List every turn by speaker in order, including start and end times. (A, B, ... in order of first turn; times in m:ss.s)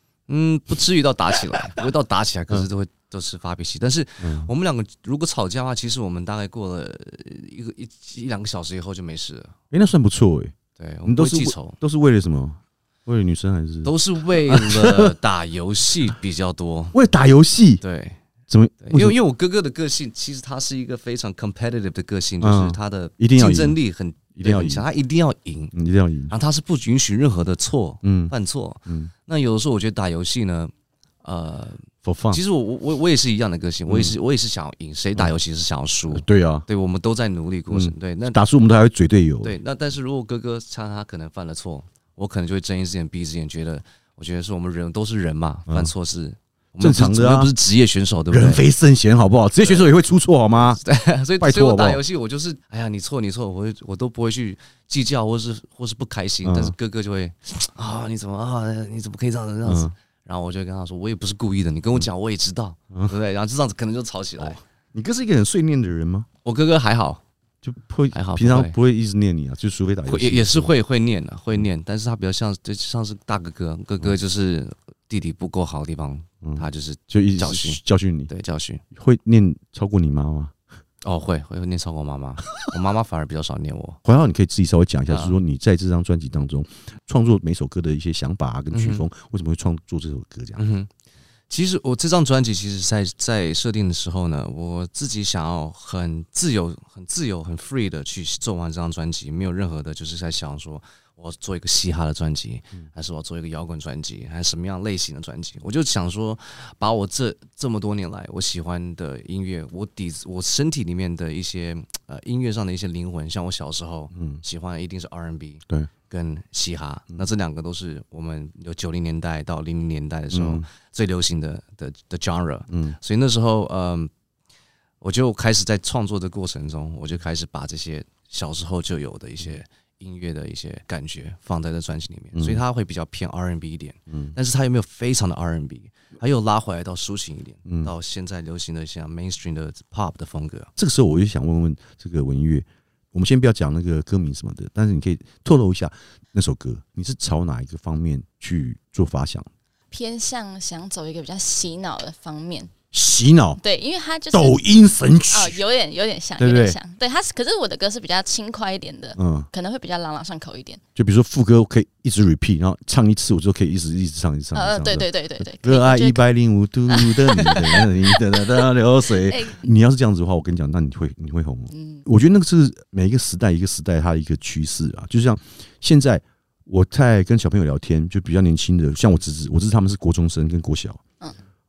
0:00.3-0:09.5 A
0:04.2-0:04.5 B
0:09.7-0:10.5 B
0:10.8-0:11.8 A
0:11.0-0:15.1 B
0:13.8-0:17.0 A
0:16.9-0:17.8 B
0:17.8-0:18.2 A
0:18.5-0:19.2 B
0:18.8-0:25.7 A
0:22.4-0:23.8 B
0:24.3-0:24.8 B
0:25.7-0:26.3 B
0:26.3-0:30.7 A
0:28.0-0:28.3 B
0:31.2-0:38.4 A
0:32.0-0:32.4 B
0:33.9-0:34.1 B
0:36.1-0:36.6 B
0:37.7-0:39.6 B
0:39.4-0:48.6 A
0:46.8-0:47.5 B
0:48.3-0:50.8 B
0:49.6-0:49.9 A
0:50.6-1:04.6 A
0:51.4-0:52.0 B
0:56.4-0:56.7 B
0:59.6-0:59.9 B
1:04.4-1:06.3 B
1:06.4-1:07.2 A
1:07.6-1:10.7 B
1:08.1-1:08.7 A
1:10.1-1:18.8 A
1:16.4-1:18.3 B
1:18.9-1:20.5 B
1:21.0-1:24.0 A
1:24.0-1:30.6 B
1:25.1-1:25.4 A
1:28.7-1:29.0 A
1:30.6-1:30.9 A
1:31.5-2:04.1 A
1:54.1-1:54.4 B
2:00.3-2:00.6 B
2:02.7-2:03.0 B
2:05.0-2:20.7 A
2:12.3-2:12.6 B
2:14.1-2:14.4 B
2:17.6-2:17.9 B
2:20.8-2:29.5 B
2:29.9-2:32.7 C
2:32.9-2:33.6 B
2:33.6-2:34.6 C
2:34.3-2:35.6 B
2:35.3-2:40.8 C
2:36.4-2:36.8 B
2:39.2-2:39.5 B
2:41.0-3:01.0 B
2:44.5-2:46.2 C
2:46.9-2:48.6 C
2:49.1-2:49.6 C
2:51.7-2:52.0 C